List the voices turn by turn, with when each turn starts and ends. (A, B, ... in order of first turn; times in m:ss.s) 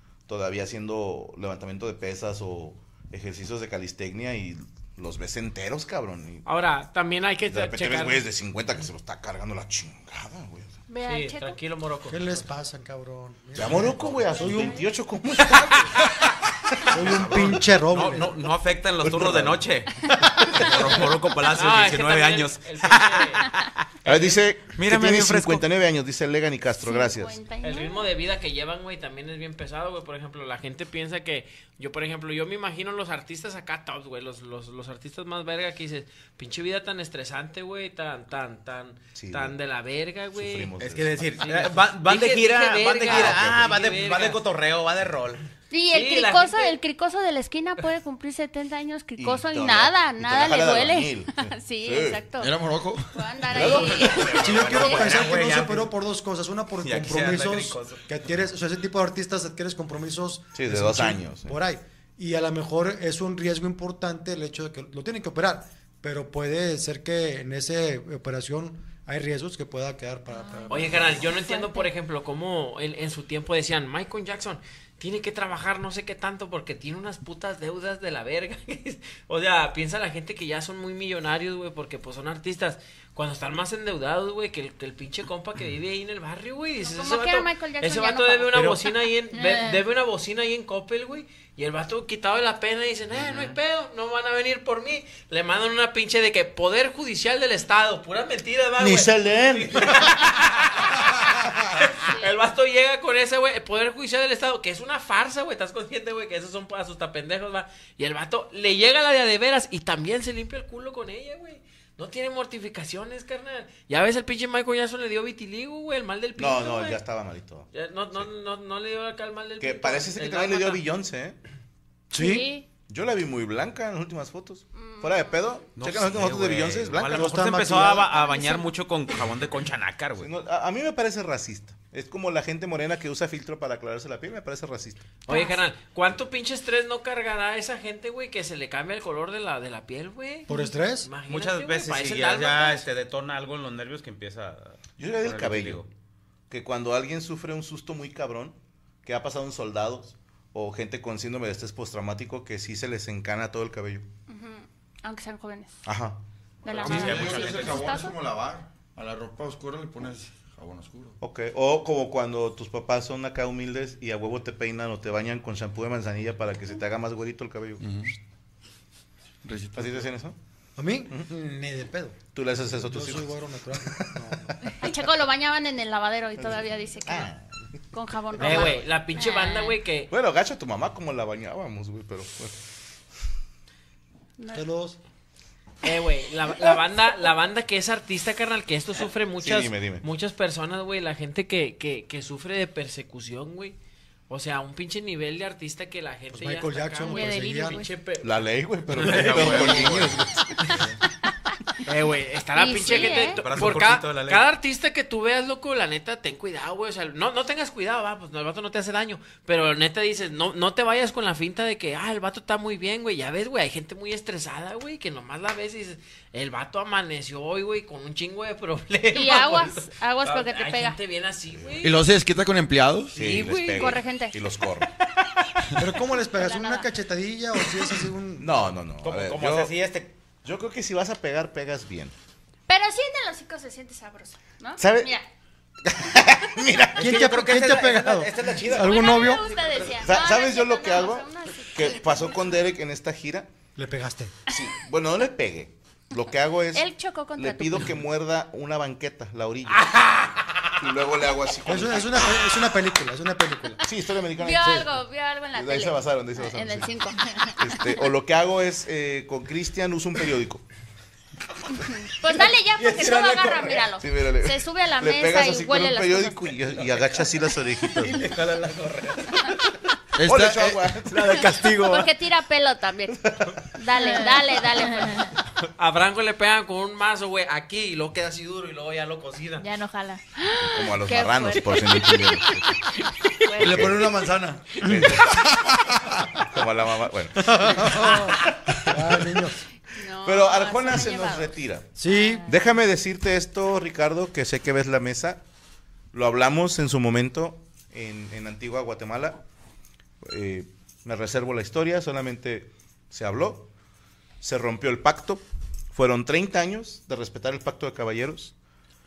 0:00.3-0:06.4 A
0:06.4-0:08.2 B
0:07.5-0:10.8 A
0:10.9-0:11.6 C
0:11.0-0:12.4 B
0:12.1-0:15.9 D
0:13.6-0:16.1 A
0:16.9-0:18.4 D
0:17.0-0:17.6 A
0:17.0-0:25.6 E
0:19.0-0:19.7 A
0:21.5-0:23.5 B
0:24.0-0:24.4 B
0:24.0-0:27.4 A
0:26.8-0:28.1 C
0:27.6-0:40.7 B
0:39.2-0:39.6 A
0:40.4-0:41.4 A
0:40.8-0:45.4 E
0:41.4-0:44.4 B
0:43.1-0:43.7 A
0:45.7-0:52.5 C
0:45.9-0:46.8 B
0:49.2-0:52.2 A
0:52.4-0:53.4 F
0:53.1-0:55.2 C
0:53.5-0:54.6 A
0:53.6-0:56.0 E
0:54.3-1:11.4 D
0:56.8-0:58.0 E
1:00.6-1:01.6 A
1:10.3-1:11.9 G
1:10.7-1:57.0 B
1:26.8-1:28.8 C
1:38.8-1:40.0 A
1:56.4-1:58.3 A
1:57.7-2:00.9 B
1:59.6-2:01.4 A
2:02.1-2:02.5 D
2:02.2-2:02.7 C
2:02.9-2:07.4 A
2:04.7-2:05.4 C
2:05.8-2:10.3 E
2:07.1-2:08.4 D
2:10.2-2:15.1 A
2:15.3-2:22.9 B
2:20.5-2:21.1 D
2:21.3-2:25.9 E
2:25.0-2:25.8 A
2:26.5-2:34.0 A
2:34.3-2:35.7 C
2:35.9-2:36.2 A
2:36.6-2:38.2 C
2:36.8-2:37.7 B
2:36.8-2:41.2 F
2:41.2-2:47.8 A
2:47.8-2:48.1 F
2:49.4-2:50.1 F
2:49.8-2:50.4 A
2:50.8-2:54.6 D
2:52.4-2:53.4 A
2:54.8-2:57.3 C
2:57.1-2:57.5 A
2:57.9-2:59.5 C
2:58.4-3:00.1 B
2:58.4-2:58.8 A
3:00.1-3:02.6 A
3:04.4-3:04.6 C
3:04.5-3:05.0 D
3:05.8-3:13.8 B
3:09.4-3:10.0 A
3:14.3-3:19.8 B
3:16.3-3:17.9 D
3:18.2-3:20.8 A
3:19.0-3:20.2 D
3:19.0-3:20.0 E
3:19.4-3:20.0 F
3:21.8-3:42.0 B
3:22.5-3:23.5 C
3:22.9-3:24.5 E
3:39.1-3:41.0 C
3:41.6-3:41.8 A
3:41.8-3:43.2 F
3:43.2-3:44.0 B
3:43.2-3:44.9 A
3:43.7-3:44.4 C
3:45.8-3:48.7 D
3:46.4-3:46.8 C
3:48.4-3:49.8 A
3:49.0-3:50.1 E
3:50.4-3:52.1 A
3:52.7-3:55.3 C
3:54.8-3:55.2 A
3:55.9-3:57.2 A
3:57.0-3:59.9 E
3:57.0-3:59.5 D
3:58.8-4:02.4 C
4:00.0-4:03.5 A
4:03.8-4:04.4 D
4:04.5-4:09.9 A
4:06.7-4:07.9 C
4:10.8-4:12.4 A
4:11.7-4:13.8 D
4:13.8-4:15.0 A
4:14.4-4:17.6 C
4:14.6-4:14.9 D
4:15.5-4:17.0 A
4:17.6-4:20.6 A
4:21.8-4:26.6 C
4:22.4-4:23.9 E
4:24.0-4:28.3 A
4:28.0-4:29.6 E
4:30.2-4:30.9 F
4:30.2-4:31.5 A
4:31.1-4:32.1 E
4:31.8-4:33.2 C
4:33.7-4:35.3 C
4:34.0-4:35.3 G
4:35.8-4:39.7 B
4:39.6-4:40.4 G
4:40.5-4:42.0 C
4:40.6-4:42.8 A
4:41.4-4:42.2 G
4:43.5-4:43.8 C
4:43.6-4:44.2 A
4:43.6-4:44.8 F
4:44.8-4:45.6 A
4:44.8-4:45.1 D
4:46.4-4:48.2 A
4:47.4-4:49.6 D
4:49.9-4:51.6 C
4:50.2-4:52.0 A
4:52.0-4:52.5 D
4:52.1-4:52.4 G
4:52.5-4:55.4 A
4:56.1-4:59.4 A
5:00.2-5:03.7 A
5:04.4-5:08.5 A